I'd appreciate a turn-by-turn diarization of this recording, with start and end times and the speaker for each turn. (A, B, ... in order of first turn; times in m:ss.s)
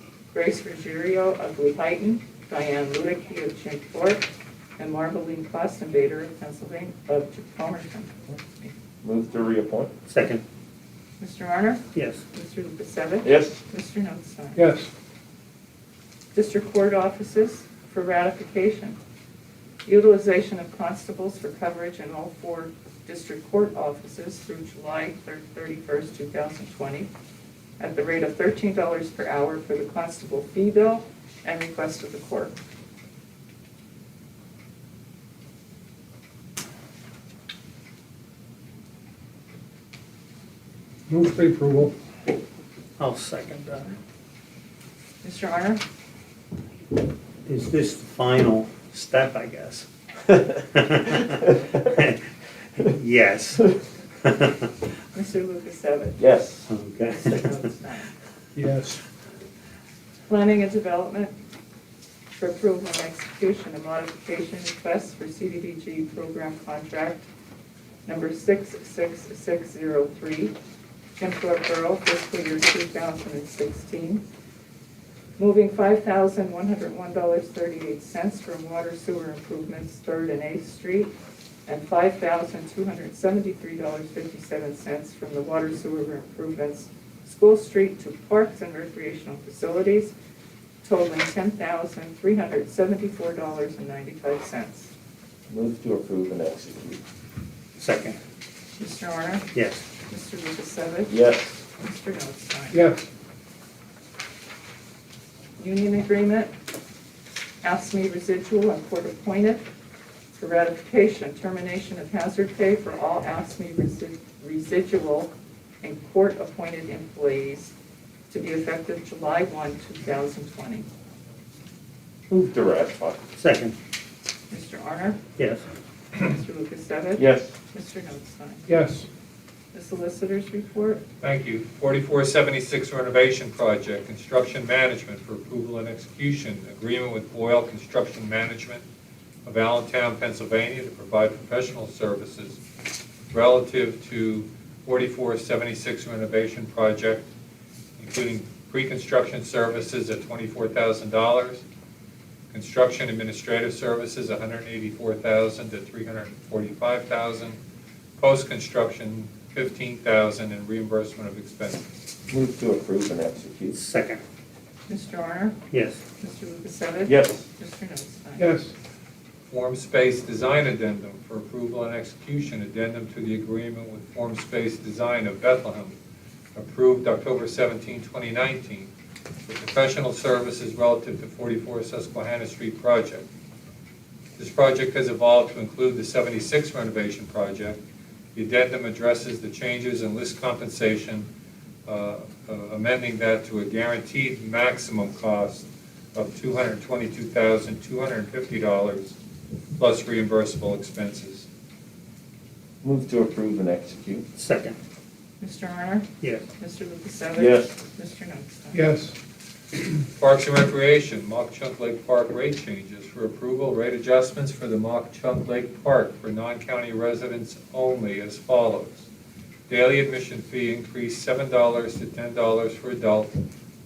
0:00.3-0:04.2 A
0:04.8-0:08.7 A
0:09.0-0:09.9 B
0:10.1-0:10.4 C
0:11.2-0:14.7 A
0:11.9-0:12.2 C
0:13.2-0:13.6 B
0:14.6-0:14.9 D
0:16.3-0:19.0 A
0:19.8-0:27.1 A
0:27.8-0:32.5 A
0:41.1-0:41.9 D
0:43.0-0:44.0 C
0:45.2-0:45.8 A
0:47.5-0:52.2 C
0:52.8-0:54.7 C
0:55.1-0:56.2 A
0:56.2-0:56.7 B
0:56.7-0:57.6 C
0:57.1-0:58.1 A
0:58.6-0:59.0 D
1:00.3-1:01.3 A
1:02.4-1:07.3 A
1:08.1-1:10.5 A
1:11.2-1:14.2 A
1:15.4-1:21.1 A
1:21.7-1:30.1 A
1:30.8-1:34.9 A
1:35.5-1:37.0 B
1:37.8-1:38.2 C
1:38.8-1:39.5 A
1:39.5-1:39.8 C
1:40.1-1:41.1 A
1:41.1-1:41.6 B
1:41.8-1:42.8 A
1:42.7-1:43.0 D
1:45.6-1:46.5 A
1:47.6-1:49.6 A
1:50.4-1:57.7 A
1:58.3-2:00.9 A
2:02.3-2:03.2 B
2:03.4-2:03.8 C
2:04.5-2:05.2 A
2:05.4-2:05.6 C
2:06.2-2:08.7 A
2:07.2-2:07.5 B
2:08.7-2:09.1 D
2:09.7-2:11.0 A
2:11.2-2:18.8 E
2:19.4-2:22.6 E
2:23.3-2:27.3 E
2:28.0-2:31.6 E
2:32.5-2:37.6 E
2:38.2-2:41.8 E
2:42.3-2:43.8 B
2:43.7-2:44.2 C
2:44.9-2:45.6 A
2:45.7-2:46.0 C
2:46.2-2:48.5 A
2:47.1-2:47.4 B
2:48.4-2:48.7 D
2:49.5-2:56.0 E
2:56.6-2:58.9 E
2:59.4-3:03.3 E
3:04.4-3:07.8 E
3:08.4-3:11.3 E
3:11.9-3:19.1 E
3:19.8-3:21.5 E
3:22.8-3:24.2 B
3:24.4-3:24.8 C
3:25.4-3:28.9 A
3:27.4-3:27.7 B
3:28.7-3:29.1 D
3:30.2-3:39.1 E
3:39.7-3:43.4 E